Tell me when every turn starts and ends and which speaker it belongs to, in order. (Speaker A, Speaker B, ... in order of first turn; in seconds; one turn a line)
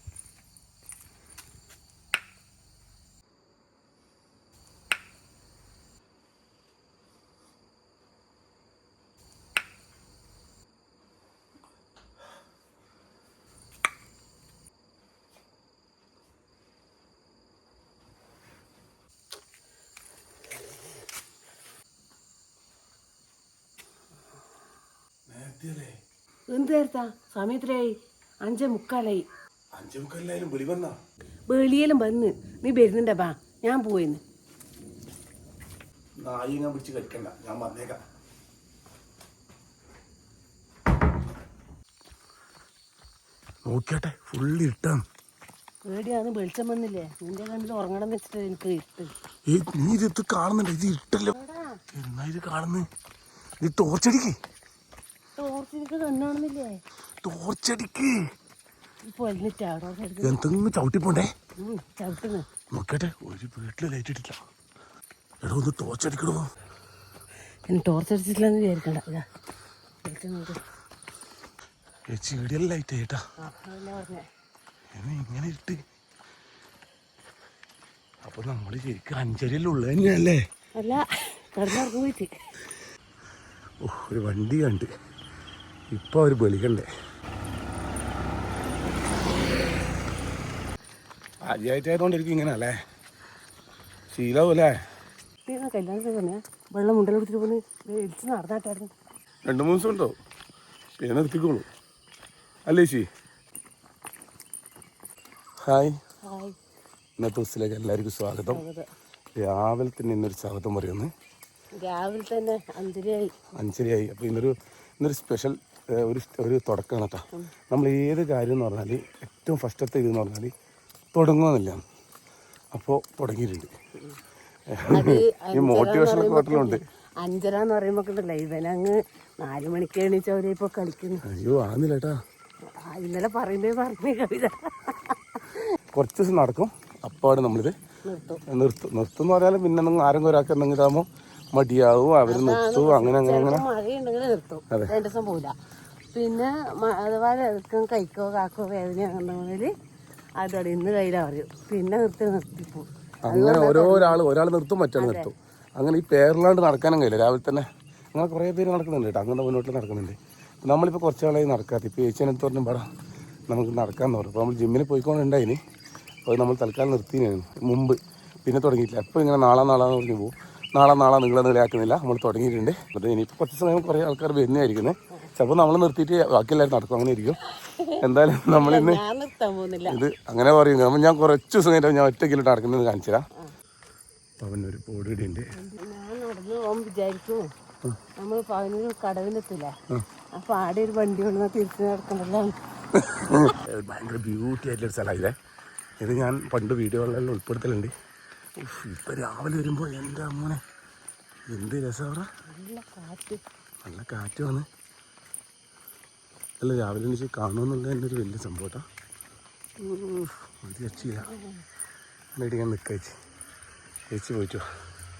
Speaker A: 25.3-26.0
Speaker B: 26.5-27.9
Speaker B: 28.4-29.2
Speaker A: 29.7-31.0
Speaker B: 31.5-34.2
Speaker A: 36.2-38.0
Speaker A: 43.6-45.0
Speaker B: 45.8-49.1
Speaker A: 49.5-51.3
Speaker B: 51.3-51.7
Speaker A: 51.9-52.9
Speaker A: 53.6-54.3
Speaker B: 55.4-56.8
Speaker A: 57.2-58.2
Speaker B: 59.1-60.4
Speaker A: 60.2-61.3
Speaker B: 61.6-62.4
Speaker A: 62.7-64.4
Speaker A: 65.4-66.5
Speaker B: 67.7-69.2
Speaker B: 70.0-70.6
Speaker A: 72.1-73.2
Speaker B: 73.4-74.2
Speaker A: 74.9-75.8
Speaker A: 78.2-80.4
Speaker B: 80.8-82.3
Speaker A: 83.8-84.9
Speaker A: 85.9-86.9
Speaker A: 91.4-92.7
Speaker A: 94.1-94.7
Speaker B: 95.5-98.9
Speaker A: 99.5-100.2
Speaker A: 101.0-101.7
Speaker A: 102.7-103.1
Speaker A: 105.6-106.0
Speaker B: 106.2-106.5
Speaker A: 107.2-108.6
Speaker B: 108.5-108.8
Speaker A: 109.4-111.1
Speaker B: 111.7-113.3
Speaker A: 113.6-120.5
Speaker A: 121.1-121.8
Speaker A: 122.7-123.7
Speaker A: 124.7-126.8
Speaker B: 124.9-131.2
Speaker A: 131.2-132.2
Speaker B: 132.7-135.4
Speaker A: 135.9-137.7
Speaker B: 138.1-138.4
Speaker A: 138.5-143.7
Speaker B: 142.3-145.5
Speaker B: 146.1-149.7
Speaker B: 150.4-154.2
Speaker A: 153.2-162.8
Speaker B: 155.0-155.3
Speaker A: 163.5-165.6
Speaker A: 166.2-177.4
Speaker A: 178.0-179.0
Speaker B: 178.6-180.0
Speaker A: 179.8-183.2
Speaker A: 184.4-185.5
Speaker B: 185.5-187.5
Speaker B: 188.2-189.7
Speaker B: 190.3-192.6
Speaker A: 192.9-195.3
Speaker A: 196.0-197.9
Speaker A: 198.6-200.6
Speaker A: 201.5-202.2
Speaker B: 202.5-203.4
Speaker A: 203.8-204.7
Speaker A: 206.6-208.8
Speaker A: 209.8-211.3
Speaker B: 211.1-211.6
Speaker A: 212.3-213.1
Speaker A: 214.1-214.6